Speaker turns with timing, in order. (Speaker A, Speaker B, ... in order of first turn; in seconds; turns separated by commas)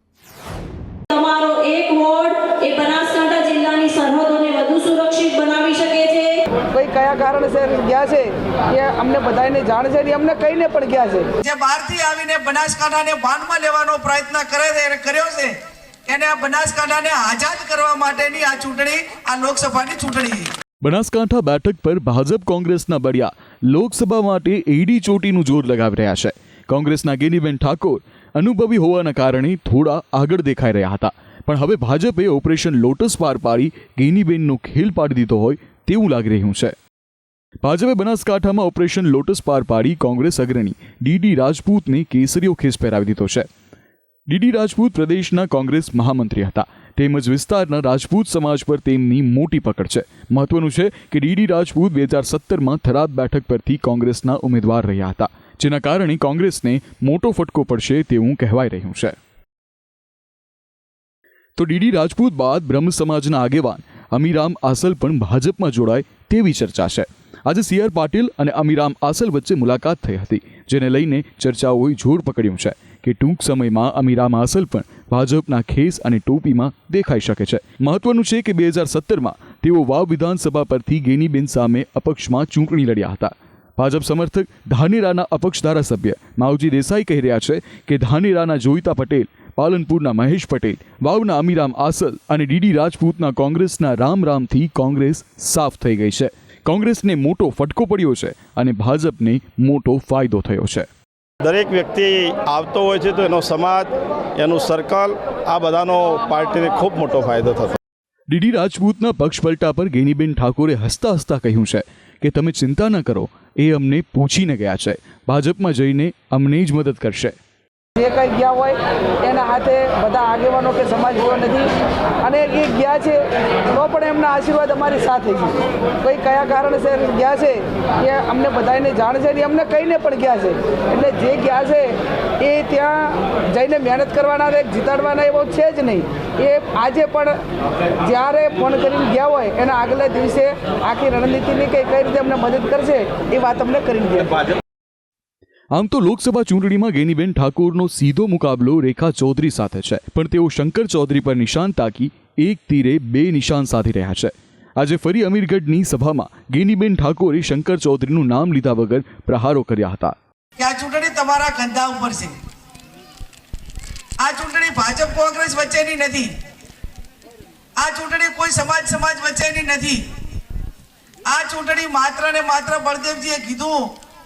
Speaker A: 1.1-6.3, Speaker B: 6.7-15.4, Speaker C: 11.5-15.5, Speaker B: 16.1-20.2, Speaker C: 16.5-17.1, Speaker C: 17.8-20.5, Speaker D: 20.8-36.7, Speaker D: 37.6-43.5, Speaker D: 44.3-59.1, Speaker D: 61.6-100.9, Speaker E: 101.4-107.8, Speaker D: 108.3-117.3, Speaker B: 118.0-121.7, Speaker B: 122.2-123.2, Speaker B: 123.7-137.3, Speaker B: 138.0-144.4, Speaker D: 145.7-160.1, Speaker C: 160.6-162.4, Speaker C: 164.2-166.3, Speaker B: 164.6-165.3, Speaker C: 167.8-170.1, Speaker C: 171.2-173.9, Speaker B: 172.4-173.0